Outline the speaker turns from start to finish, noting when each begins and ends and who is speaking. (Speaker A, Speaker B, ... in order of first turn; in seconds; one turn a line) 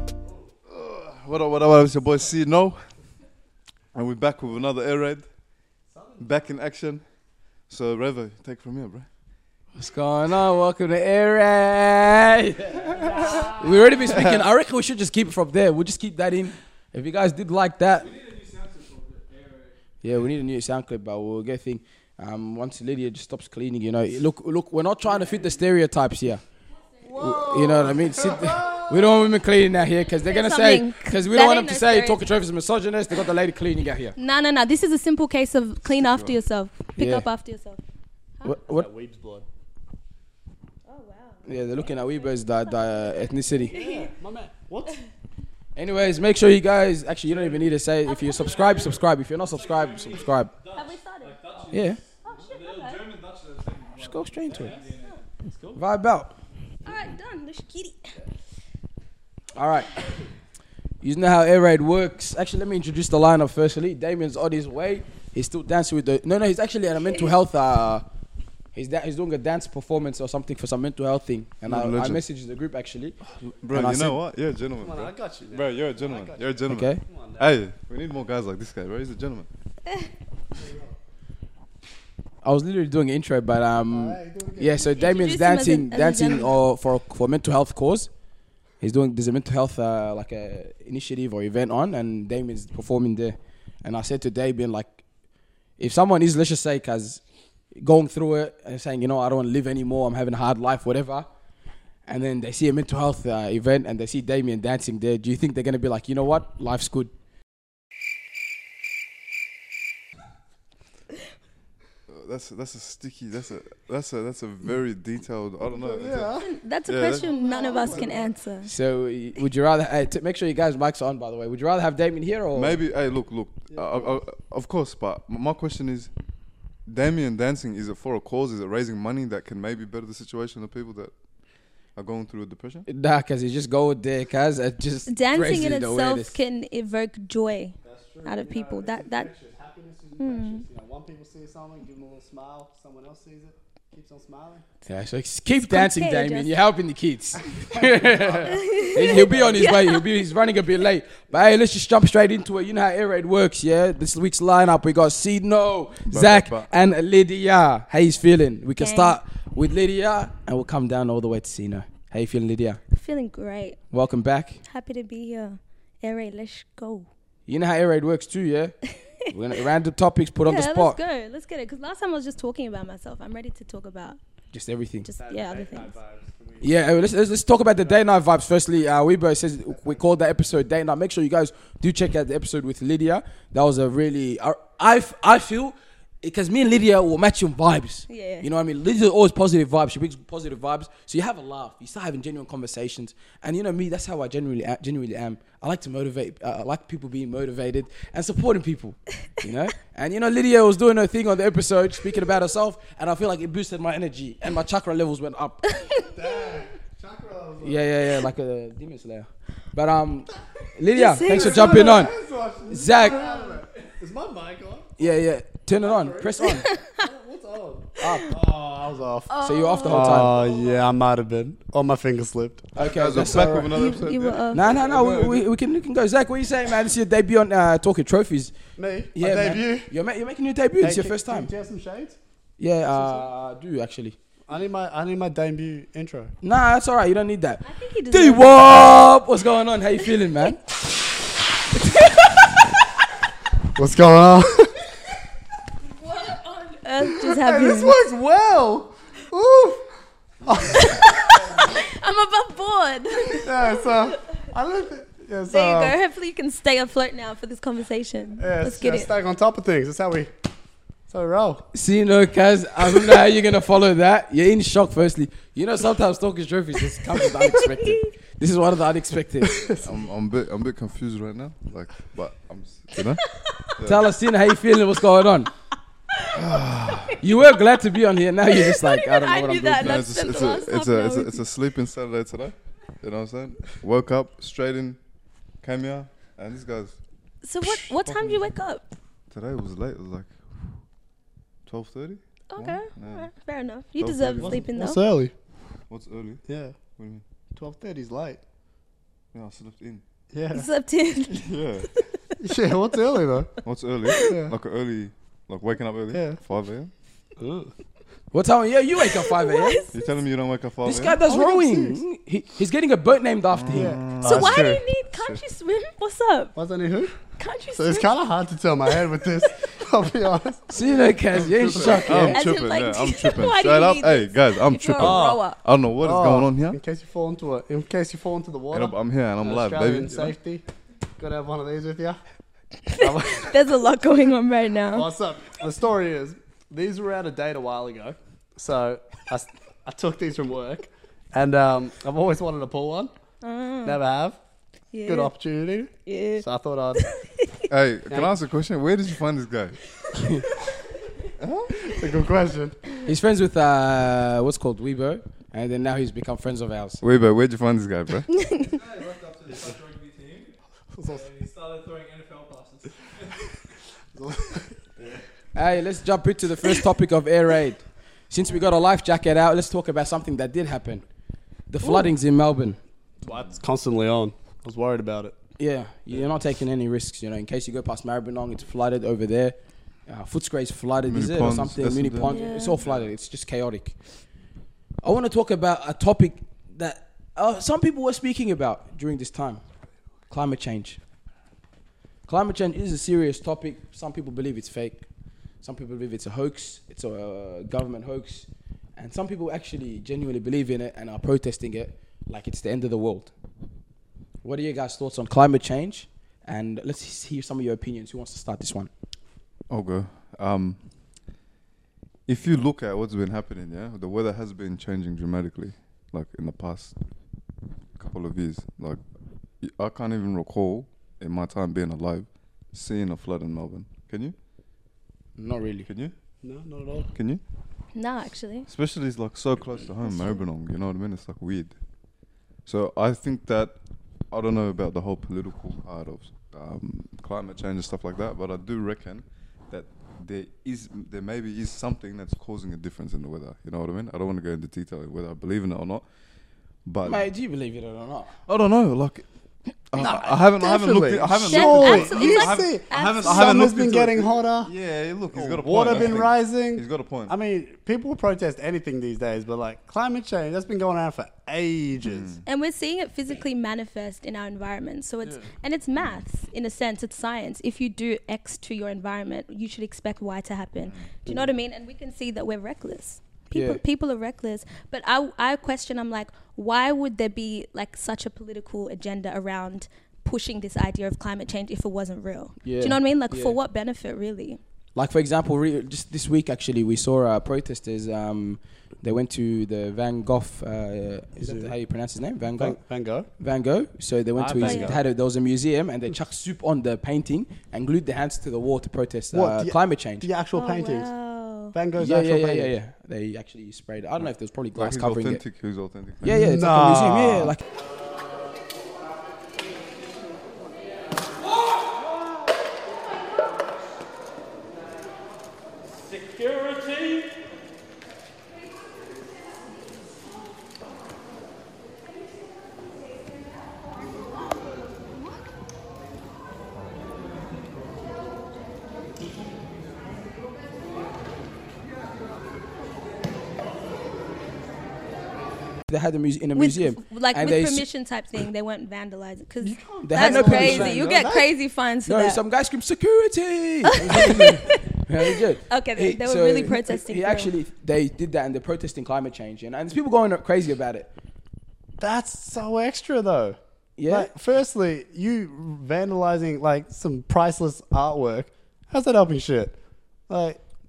Speaker A: 0.7-2.8
Speaker A: 3.9-5.3
Speaker B: 5.9-6.2
Speaker A: 6.2-7.0
Speaker A: 7.7-9.1
Speaker C: 9.8-18.1
Speaker A: 14.1-14.4
Speaker D: 18.1-19.7
Speaker C: 20.0-26.4
Speaker B: 27.0-29.1
Speaker C: 27.2-34.1
Speaker E: 30.1-32.2
Speaker E: 34.2-37.8
Speaker A: 35.9-36.3
Speaker C: 37.0-37.3
Speaker C: 38.4-38.9
Speaker B: 38.7-39.5
Speaker E: 40.8-44.1
Speaker C: 41.5-43.7
Speaker B: 43.7-45.0
Speaker C: 45.8-50.5
Speaker E: 48.0-48.8
Speaker D: 48.7-52.0
Speaker E: 50.7-51.7
Speaker C: 51.7-52.0
Speaker E: 52.2-53.0
Speaker D: 52.5-55.2
Speaker C: 54.0-54.8
Speaker C: 55.7-56.3
Speaker E: 56.8-58.1
Speaker C: 59.5-60.1
Speaker C: 61.0-68.0
Speaker C: 68.8-73.2
Speaker A: 71.7-72.2
Speaker A: 73.4-79.5
Speaker C: 73.7-74.2
Speaker B: 74.8-77.5
Speaker C: 76.7-77.0
Speaker B: 80.5-80.9
Speaker C: 82.4-88.1
Speaker B: 83.9-85.4
Speaker E: 84.9-86.6
Speaker C: 88.8-95.0
Speaker C: 95.8-97.2
Speaker C: 97.7-101.3
Speaker C: 102.1-107.1
Speaker A: 112.1-116.3
Speaker B: 115.7-116.5
Speaker E: 116.4-118.7
Speaker A: 116.9-117.2
Speaker B: 117.2-118.3
Speaker C: 118.6-122.8
Speaker A: 122.5-126.1
Speaker B: 123.7-124.1
Speaker A: 126.9-131.1
Speaker A: 131.9-132.8
Speaker C: 132.9-136.4
Speaker E: 135.1-139.3
Speaker B: 137.8-144.7
Speaker E: 140.2-140.6
Speaker C: 144.8-162.8
Speaker E: 145.6-146.5
Speaker B: 147.7-149.1
Speaker E: 148.5-150.0
Speaker A: 156.1-156.7
Speaker E: 158.8-159.2
Speaker E: 162.9-163.8
Speaker C: 163.9-164.6
Speaker E: 164.7-167.1
Speaker C: 167.5-171.0
Speaker E: 170.4-174.2
Speaker C: 174.5-175.1
Speaker E: 175.0-175.9
Speaker B: 175.2-176.7
Speaker C: 176.6-205.7
Speaker B: 177.8-178.0
Speaker B: 179.7-180.0
Speaker E: 188.1-188.5
Speaker E: 205.8-206.1
Speaker B: 206.1-207.9
Speaker C: 207.6-212.1
Speaker E: 210.9-212.1
Speaker B: 211.2-214.9
Speaker C: 212.7-213.2
Speaker C: 215.0-216.7
Speaker B: 215.8-223.6
Speaker C: 218.0-218.3
Speaker E: 219.3-220.4
Speaker C: 219.4-220.3
Speaker C: 222.8-223.7
Speaker A: 222.8-225.2
Speaker E: 223.7-224.6
Speaker C: 224.5-228.5
Speaker B: 224.7-225.4
Speaker B: 228.8-229.9
Speaker C: 229.1-231.5
Speaker B: 230.8-232.2
Speaker C: 232.6-234.2
Speaker B: 232.9-233.2
Speaker B: 234.5-236.3
Speaker C: 236.4-240.6
Speaker E: 237.6-238.9
Speaker B: 243.7-244.7
Speaker E: 245.9-247.9
Speaker B: 247.0-249.8
Speaker B: 250.4-251.7
Speaker E: 250.6-254.1
Speaker B: 253.4-256.0
Speaker E: 255.5-259.1
Speaker B: 258.4-260.3
Speaker B: 261.1-261.6
Speaker C: 261.7-269.7
Speaker E: 267.1-268.1
Speaker B: 269.4-269.9
Speaker A: 269.8-274.1
Speaker C: 273.8-275.5
Speaker A: 276.3-277.2
Speaker C: 277.2-280.0
Speaker E: 278.5-281.4
Speaker A: 279.8-285.0
Speaker A: 285.6-287.0
Speaker E: 287.4-288.8
Speaker A: 287.6-288.5
Speaker A: 289.3-290.3
Speaker A: 291.7-293.3
Speaker E: 292.5-295.0
Speaker A: 294.0-294.6
Speaker B: 294.4-295.3
Speaker A: 295.9-296.4
Speaker B: 296.5-296.8
Speaker A: 297.0-297.2
Speaker B: 297.6-298.4
Speaker A: 299.3-300.0
Speaker B: 300.3-300.7
Speaker E: 300.5-301.6
Speaker A: 301.3-302.0
Speaker B: 302.4-303.5
Speaker A: 303.6-306.9
Speaker E: 304.1-304.3
Speaker B: 304.2-304.5
Speaker B: 306.1-306.4
Speaker B: 307.4-307.7
Speaker C: 308.3-309.8
Speaker E: 309.1-309.9
Speaker A: 309.9-311.2
Speaker C: 310.8-314.0
Speaker B: 311.1-312.0
Speaker A: 313.5-314.7
Speaker B: 313.7-314.8
Speaker E: 314.2-316.5
Speaker B: 316.6-317.1
Speaker E: 317.4-318.1
Speaker B: 317.7-322.4
Speaker C: 320.7-322.4
Speaker A: 321.5-326.8
Speaker E: 322.3-325.6
Speaker B: 325.0-325.4
Speaker B: 326.0-330.6
Speaker A: 328.7-330.4
Speaker B: 331.2-332.2
Speaker E: 332.9-335.1
Speaker B: 333.0-333.6
Speaker B: 334.9-343.1
Speaker E: 343.4-344.0
Speaker B: 343.8-344.4
Speaker E: 344.9-345.3
Speaker B: 345.1-347.1
Speaker E: 346.1-346.4
Speaker E: 347.1-347.5
Speaker A: 347.7-349.8
Speaker C: 350.2-350.4
Speaker A: 351.4-351.9
Speaker B: 351.8-352.8
Speaker C: 353.1-357.0
Speaker A: 357.0-358.3
Speaker D: 358.7-363.5
Speaker B: 360.9-361.3
Speaker B: 364.1-365.2
Speaker C: 365.6-371.1
Speaker C: 371.7-372.8
Speaker E: 371.9-372.1
Speaker B: 373.2-375.3
Speaker C: 375.6-384.0
Speaker A: 381.1-382.4
Speaker E: 382.2-382.8
Speaker C: 385.0-389.6
Speaker C: 390.3-391.0
Speaker C: 392.3-395.1
Speaker C: 395.6-403.3
Speaker C: 404.4-408.9
Speaker A: 409.7-410.8
Speaker A: 412.3-416.9
Speaker A: 418.0-419.0
Speaker A: 419.6-424.4
Speaker C: 425.4-425.9
Speaker A: 425.9-426.1
Speaker B: 426.4-427.1
Speaker A: 427.1-427.4
Speaker E: 427.9-428.7
Speaker A: 428.7-431.8
Speaker E: 430.1-430.4
Speaker A: 432.7-433.8
Speaker A: 434.3-446.0
Speaker A: 446.9-447.2
Speaker C: 447.1-448.3
Speaker A: 448.5-449.2
Speaker A: 449.9-457.3
Speaker B: 450.0-454.7
Speaker E: 451.5-453.6
Speaker B: 455.3-462.4
Speaker A: 462.1-462.4
Speaker E: 462.5-484.6
Speaker C: 473.5-473.8
Speaker C: 482.6-483.6
Speaker C: 484.9-492.8
Speaker B: 491.4-491.7
Speaker B: 492.6-493.3
Speaker C: 493.4-500.3
Speaker B: 494.5-495.0
Speaker E: 494.6-495.0
Speaker B: 499.3-501.1
Speaker E: 500.5-501.7
Speaker B: 501.7-502.8
Speaker C: 502.0-505.4
Speaker A: 504.8-506.4
Speaker C: 506.2-507.6
Speaker B: 506.4-507.5
Speaker C: 535.9-537.9
Speaker E: 536.5-542.4
Speaker B: 539.6-541.5
Speaker C: 540.0-541.1
Speaker C: 542.0-551.1
Speaker E: 544.0-547.5
Speaker B: 552.0-559.8
Speaker C: 554.0-554.3
Speaker B: 560.3-560.6